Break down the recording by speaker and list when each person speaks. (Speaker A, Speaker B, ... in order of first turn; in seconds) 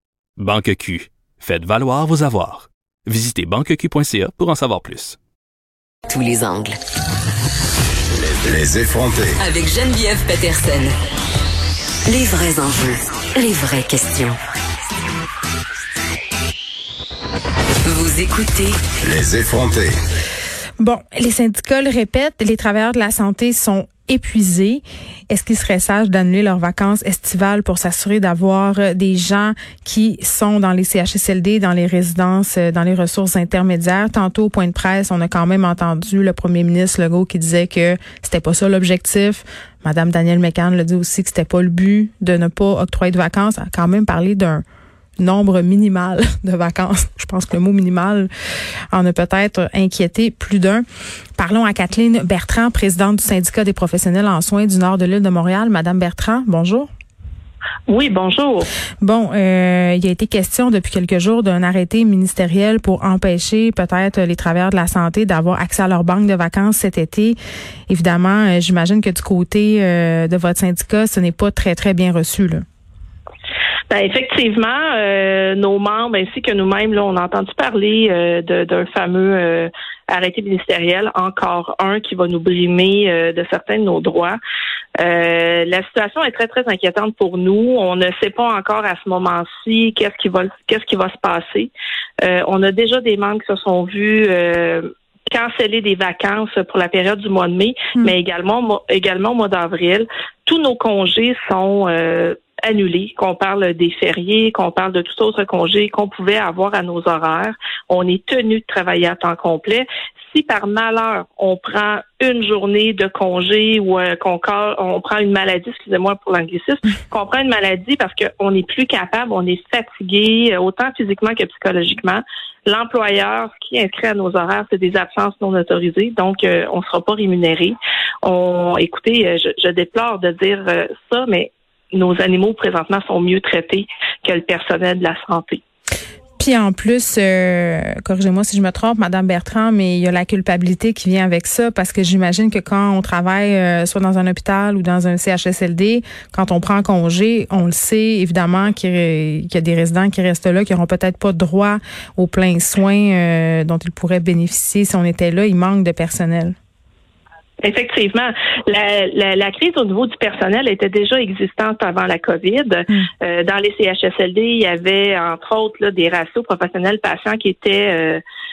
Speaker A: 0.4-5.2
Speaker B: 6.1-6.8, 9.4-10.9, 12.1-14.4, 17.8-18.8
Speaker C: 8.3-9.4, 19.0-19.9
Speaker D: 20.8-44.6, 45.2-48.3, 48.9-50.8, 51.4-56.9, 59.0-67.4, 67.9-72.6, 136.4-156.5
Speaker E: 57.9-58.7, 73.9-84.4, 85.0-91.7, 92.2-135.6, 157.6-168.2